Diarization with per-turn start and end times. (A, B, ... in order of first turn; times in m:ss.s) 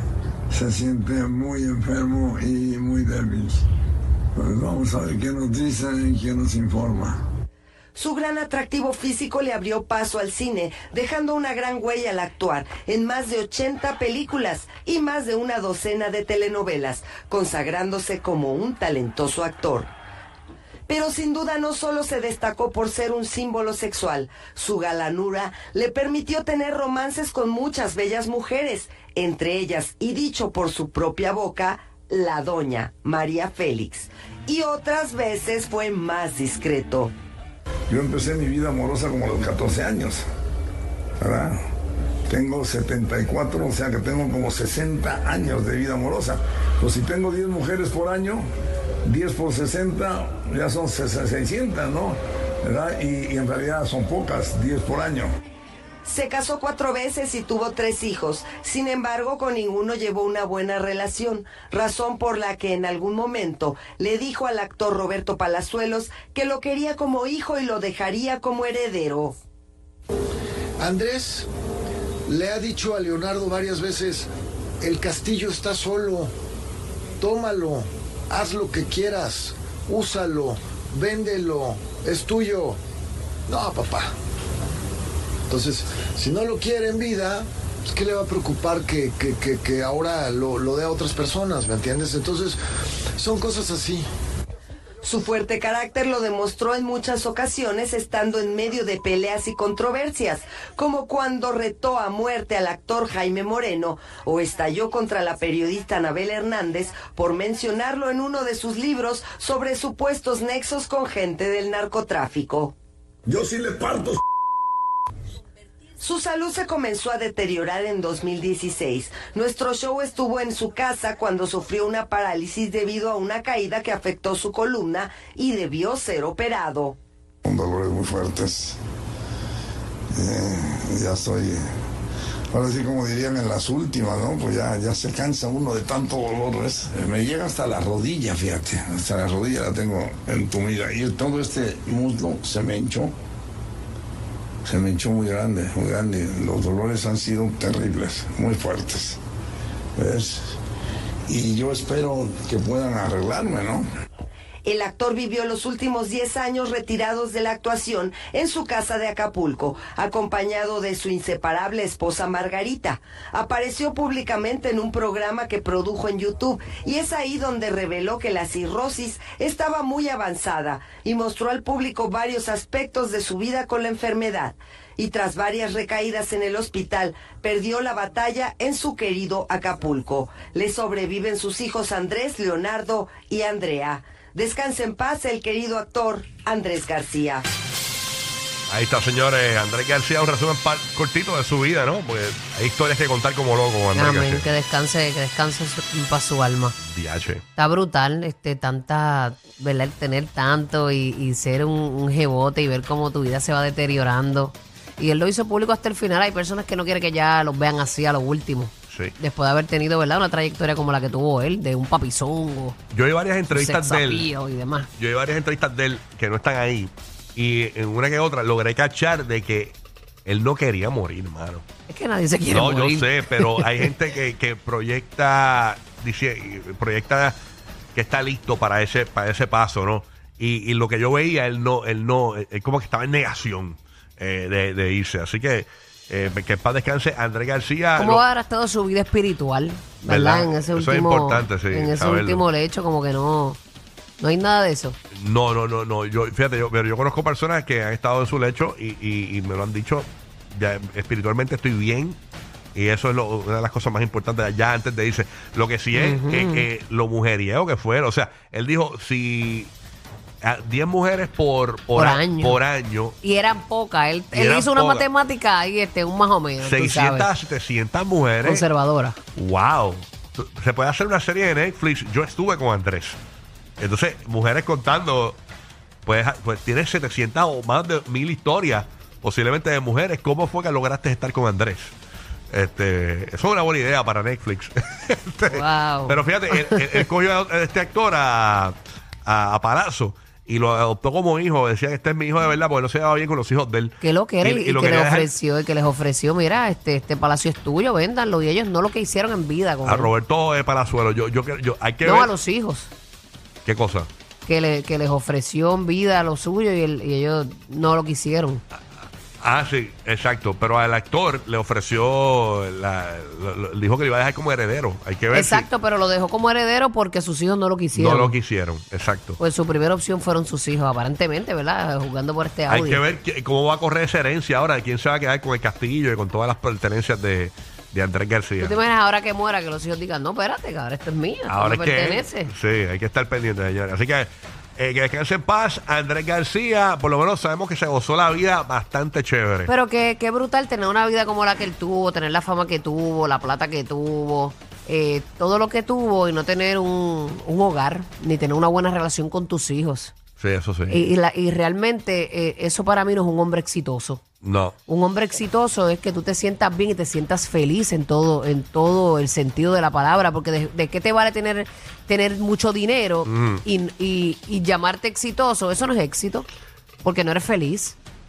0:00.5-0:03.6 A
0:04.3-0:07.2 A
0:07.9-0:19.9 B
0:20.9-0:37.1 B
0:37.9-0:40.2 A
0:41.2-0:41.6 A
0:42.3-0:48.4 A
0:49.0-0:55.3 A
0:56.0-1:09.4 B
1:10.8-1:11.5 C
1:12.3-1:14.3 C
1:14.8-1:16.3 C
1:17.2-1:22.8 C
1:23.5-1:24.1 C
1:25.5-1:32.6 C
1:33.2-1:34.1 C
1:35.0-1:52.7 B
1:53.3-1:54.2 A
1:56.0-2:07.0 B
2:07.4-2:08.8 A
2:10.1-2:11.6 A
2:12.5-2:23.1 A
2:24.6-2:29.2 A
2:30.0-2:30.5 A
2:31.3-2:33.8 A
2:34.6-3:07.4 B
3:08.7-3:14.4 D
3:13.9-3:16.8 E
3:16.8-3:17.4 D
3:17.6-3:32.8 E
3:28.9-3:29.1 D
3:32.9-3:34.3 D
3:33.5-3:34.9 E
3:35.0-3:41.6 D
3:41.9-3:43.9 E
3:42.5-3:47.4 D
3:47.9-3:58.2 D
3:58.0-4:03.6 E
4:00.0-4:02.4 D
4:04.2-4:05.0 E
4:05.1-4:12.2 D
4:12.7-4:19.7 D
4:15.9-4:16.7 E
4:20.4-4:23.2 D
4:21.9-4:22.6 E
4:23.2-4:27.3 E
4:24.3-4:25.1 D
4:26.6-4:28.6 D
4:28.4-4:29.2 E
4:29.3-4:33.2 D
4:33.8-4:35.4 D
4:36.0-4:41.9 D
4:42.5-4:55.3 D
4:45.5-4:47.0 E
4:54.0-5:00.1 E
4:59.8-5:02.3 D
5:02.0-5:02.9 E
5:03.6-5:04.1 D
5:04.4-5:08.6 E
5:09.4-5:15.7 D
5:15.3-5:18.4 E
5:17.9-5:19.4 D
5:19.4-5:23.0 E
5:22.7-5:28.8 D
5:28.6-5:32.5 E
5:31.5-5:39.7 D
5:39.7-5:50.1 E
5:50.4-5:51.1 D
5:50.9-5:54.2 E
5:54.4-5:54.8 D
5:54.9-6:06.5 E
6:03.2-6:03.6 D
6:07.0-6:08.0 E